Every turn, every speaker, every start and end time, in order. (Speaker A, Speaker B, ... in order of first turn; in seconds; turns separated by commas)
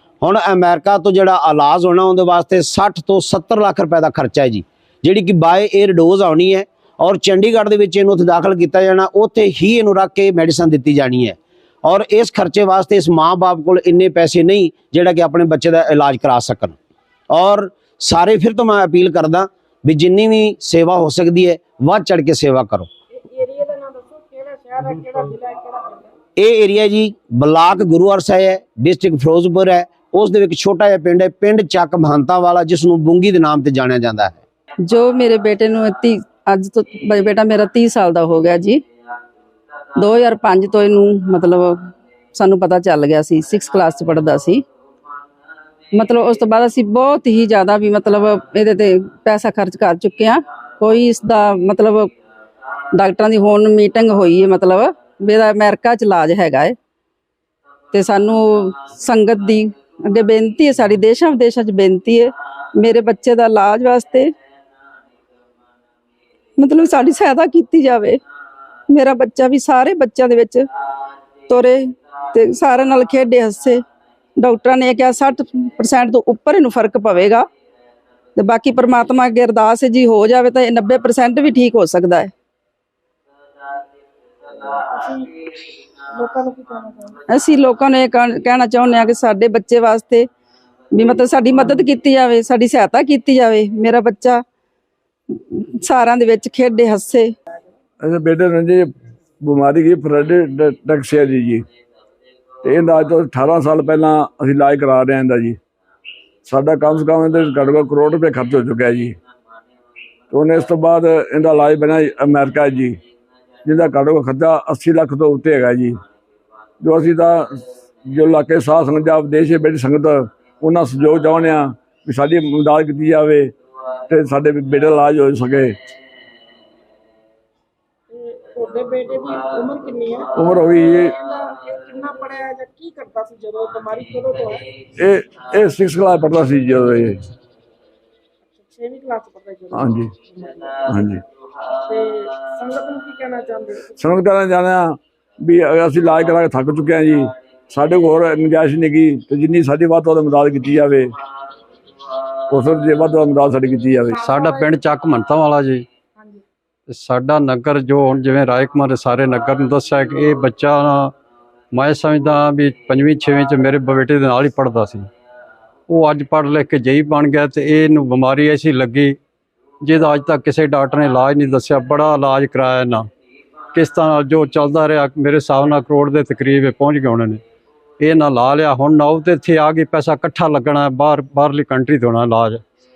Speaker A: 0.2-16.8, Speaker A: 17.3-22.9, Speaker B: 23.1-26.1, Speaker A: 26.4-34.4, Speaker C: 34.8-38.8, Speaker C: 40.0-44.6, Speaker C: 46.0-52.1, Speaker C: 53.0-56.8, Speaker C: 57.9-64.3, Speaker C: 66.6-68.2, Speaker C: 68.9-70.7, Speaker C: 71.5-73.8, Speaker C: 74.4-77.5, Speaker C: 78.4-82.3, Speaker B: 84.6-85.3, Speaker B: 86.2-87.2, Speaker C: 87.3-90.3, Speaker C: 90.9-94.4, Speaker C: 95.5-97.3, Speaker D: 98.0-98.9, Speaker D: 99.4-101.7, Speaker D: 102.6-105.6, Speaker D: 106.5-109.2, Speaker D: 110.3-113.0, Speaker D: 113.7-116.0, Speaker D: 116.8-117.6, Speaker D: 118.1-123.5, Speaker D: 124.1-125.7, Speaker B: 128.1-130.3, Speaker D: 130.4-131.2, Speaker B: 130.8-134.6, Speaker D: 135.0-137.2, Speaker B: 138.5-140.7, Speaker D: 139.7-140.1, Speaker D: 140.9-141.2, Speaker B: 141.7-144.2, Speaker D: 144.0-151.1, Speaker D: 152.5-154.2, Speaker B: 154.2-154.8, Speaker E: 154.2-155.9, Speaker E: 156.9-161.1, Speaker E: 161.7-165.1, Speaker E: 165.9-169.2, Speaker E: 169.8-173.1, Speaker E: 173.7-177.4, Speaker E: 178.0-182.6